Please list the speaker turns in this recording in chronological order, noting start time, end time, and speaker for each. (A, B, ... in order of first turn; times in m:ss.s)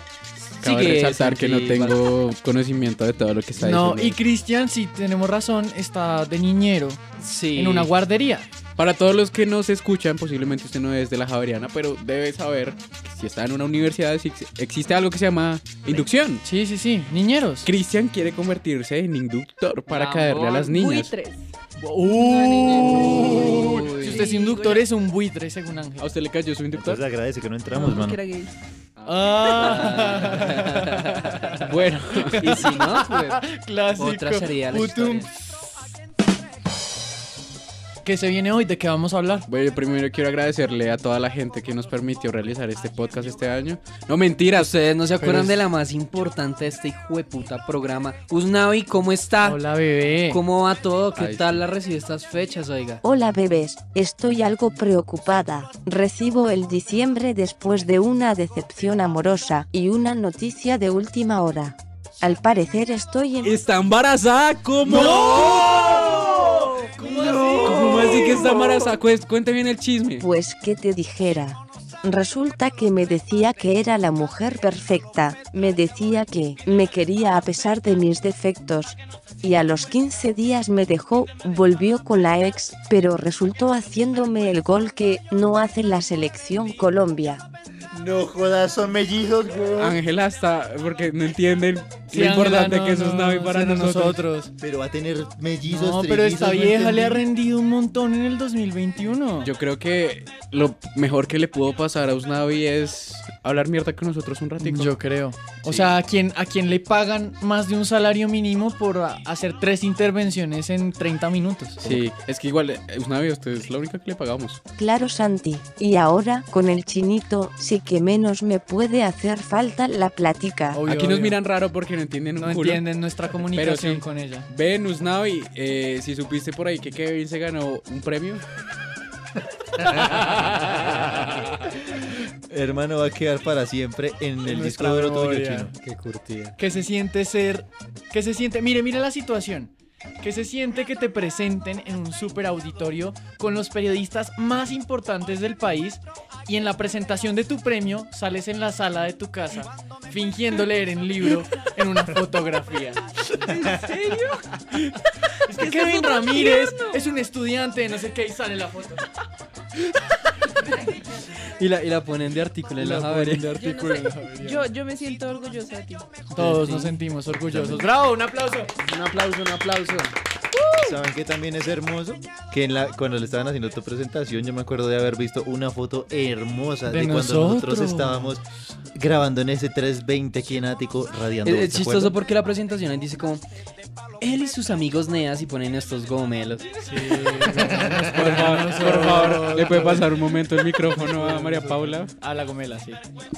0:00.4-0:02.0 A
0:00.6-0:04.2 B
0:03.6-0:07.0 C
0:07.2-0:07.9 A
0:07.6-0:08.5 C
0:08.8-0:16.4 B
0:16.4-0:17.7 C
0:17.6-0:21.1 B
0:19.9-0:20.7 A
0:20.6-0:21.4 D
0:21.8-0:26.1 C
0:22.0-0:24.9 D
0:22.7-0:24.5 A
0:26.0-0:27.0 B
0:26.7-0:28.2 E
0:27.8-0:28.6 D
0:29.1-0:31.7 C
0:29.1-0:31.7 A
0:30.1-0:30.4 B
0:31.6-0:32.6 B
0:32.3-0:35.8 C
0:32.3-0:33.4 A
0:34.0-0:35.3 A
0:38.0-0:39.5 C
0:39.5-0:44.7 B
0:44.5-0:49.6 A
0:45.2-0:45.5 C
0:49.4-0:50.4 C
0:50.3-0:53.0 A
0:51.2-0:51.6 B
0:53.0-1:03.6 F
1:03.4-1:06.3 B
1:04.9-1:08.5 C
1:07.6-1:10.2 B
1:10.2-1:27.4 F
1:27.9-1:30.0 E
1:29.8-1:34.2 B
1:32.1-1:34.5 C
1:34.6-1:37.3 E
1:35.6-1:39.5 C
1:39.4-1:45.0 B
1:44.6-1:52.0 C
1:45.7-1:45.9 B
1:51.8-1:54.6 B
1:54.8-2:00.8 F
2:00.7-2:01.4 C
2:00.8-2:02.8 B
2:02.4-2:04.5 C
2:03.5-2:08.4 B
2:10.7-2:11.3 E
2:12.5-2:15.7 E
2:14.4-2:15.7 C
2:15.8-2:16.6 A
2:16.6-2:33.1 C
2:33.3-2:34.8 D
2:35.5-2:37.0 D
2:35.5-2:39.1 C
2:41.6-2:43.8 A
2:42.8-2:44.7 C
2:43.5-2:46.2 D
2:46.3-2:48.8 C
2:46.4-2:47.0 A
2:47.3-2:47.9 E
2:48.8-2:50.1 A
2:50.6-2:51.0 D
2:50.8-3:02.2 E
2:56.9-2:58.4 C
3:01.4-3:03.4 A
3:04.2-3:06.8 A
3:06.8-3:10.2 C
3:07.9-3:12.1 B
3:11.0-3:13.0 C